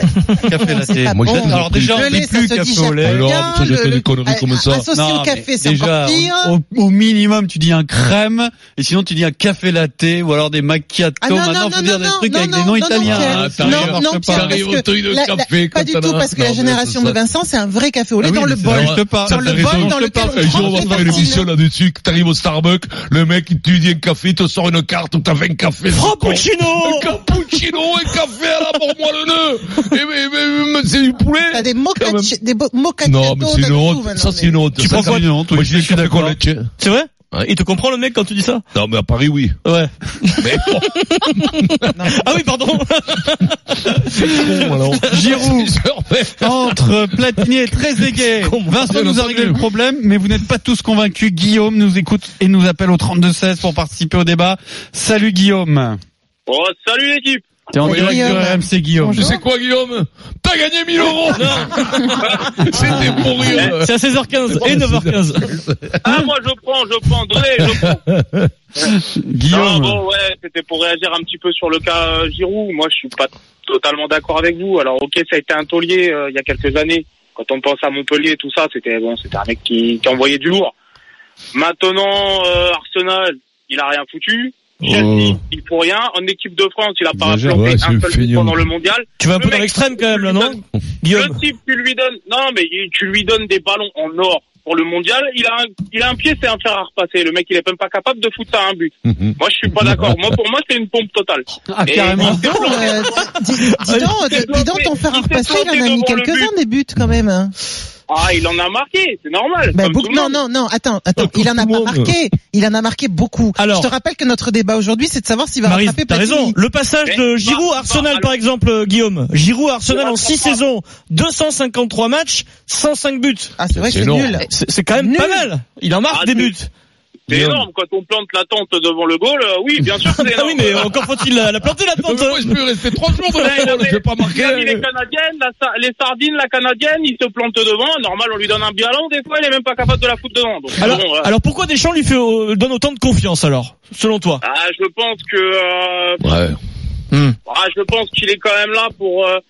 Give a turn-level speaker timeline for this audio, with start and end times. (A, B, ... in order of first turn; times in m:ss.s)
0:00.4-0:03.7 A
0:00.5-0:06.5 B
0:01.1-0:02.2 C
0:03.0-0:04.9 C
0:04.9-0:14.7 A
0:11.2-0:21.5 B
0:13.2-0:17.2 C
0:18.2-0:21.4 A
0:18.6-0:32.3 C
0:25.9-0:27.2 D
0:31.5-0:34.7 B
0:33.0-0:36.7 C
0:34.8-0:35.2 D
0:34.8-0:36.4 A
0:36.8-0:38.6 D
0:38.7-0:39.6 C
0:39.6-0:44.2 D
0:40.4-0:41.7 C
0:44.0-0:47.5 C
0:44.7-0:45.2 D
0:45.1-0:45.8 A
0:46.4-0:56.0 A
0:48.4-0:49.0 D
0:48.9-0:49.6 C
0:56.5-0:57.5 E
0:57.7-0:59.4 A
0:57.8-0:58.2 C
0:57.8-0:59.4 B
0:59.2-1:06.2 C
1:01.4-1:02.1 D
1:03.5-1:03.8 E
1:03.8-1:05.5 D
1:06.0-1:08.0 E
1:07.6-1:08.5 C
1:08.9-1:10.0 A
1:09.5-1:20.7 E
1:21.6-1:30.6 E
1:24.9-1:25.2 C
1:27.1-1:27.6 A
1:27.5-1:28.7 C
1:29.2-1:31.4 D
1:31.1-1:43.3 E
1:39.0-1:40.2 C
1:41.7-1:43.0 A
1:42.2-1:47.6 B
1:43.8-1:44.2 D
1:44.1-1:46.5 E
1:48.1-1:50.4 E
1:49.7-1:56.6 B
1:51.2-1:52.2 C
1:53.6-1:53.9 D
1:55.6-2:03.5 D
1:57.1-1:58.4 E
1:59.9-2:00.6 E
2:03.6-2:05.4 B
2:03.8-2:04.4 C
2:04.4-2:06.7 D
2:06.1-2:06.5 E
2:07.3-2:10.9 E
2:07.3-2:07.6 C
2:10.2-2:13.8 D
2:11.9-2:14.9 C
2:13.4-2:21.3 E
2:20.8-2:24.4 D
2:24.4-2:26.2 E
2:26.2-2:26.6 C
2:27.1-2:27.4 D
2:27.5-2:29.4 E